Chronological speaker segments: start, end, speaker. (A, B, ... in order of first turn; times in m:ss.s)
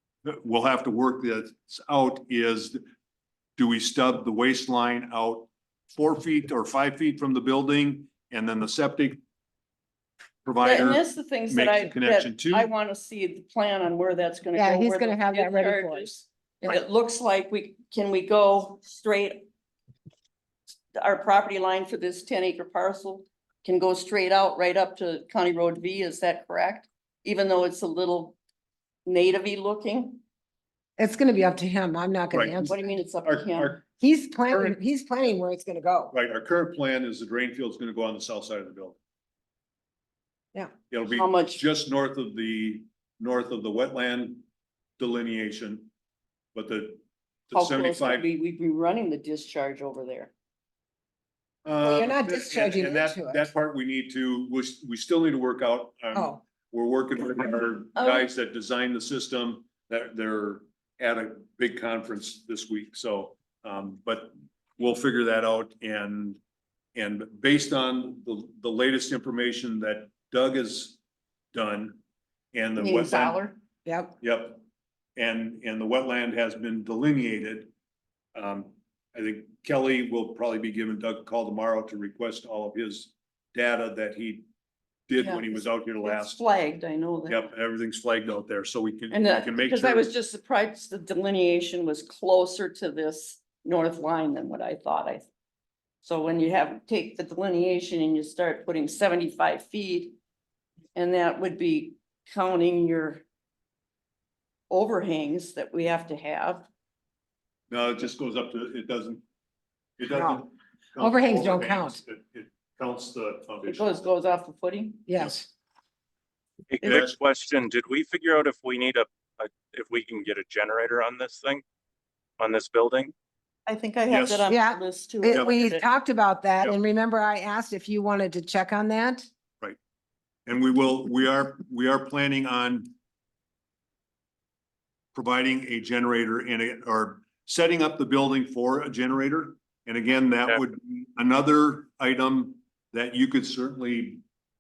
0:00.2-0:02.8 A
0:03.6-0:09.2 A
0:10.4-0:12.7 A
0:10.6-0:19.5 B
0:14.6-0:16.8 C
0:21.0-0:28.4 B
0:29.1-0:30.2 B
0:31.0-0:32.8 C
0:32.3-0:32.7 A
0:32.6-0:33.8 B
0:33.2-0:33.8 A
0:34.0-0:36.1 C
0:36.1-0:39.0 A
0:40.9-0:44.4 A
0:41.1-0:41.6 B
0:45.0-0:45.9 A
0:46.6-0:48.3 A
0:47.5-0:50.3 B
0:51.6-1:06.4 A
0:51.8-0:53.5 C
0:56.1-0:56.4 C
0:58.0-0:58.3 B
1:07.0-1:11.0 A
1:11.5-1:12.0 A
1:12.5-1:13.4 A
1:12.8-1:13.6 B
1:13.9-1:14.2 C
1:14.2-1:14.6 A
1:15.2-1:17.7 A
1:18.4-1:24.5 A
1:25.1-1:26.4 A
1:25.2-1:27.5 B
1:27.3-1:30.1 A
1:29.1-1:35.3 B
1:36.0-1:40.2 B
1:41.0-1:43.2 B
1:44.7-1:46.7 B
1:47.7-1:49.2 A
1:50.0-1:54.0 A
1:50.1-1:50.4 C
1:51.0-1:52.0 C
1:53.7-1:55.1 B
1:55.1-1:55.5 C
1:56.7-2:01.6 D
1:56.8-1:57.1 A
2:02.4-2:03.1 D
2:03.7-2:05.8 B
2:04.1-2:04.5 A
2:04.5-2:09.3 C
2:05.3-2:05.6 A
2:10.5-2:12.9 A
2:15.1-2:24.2 A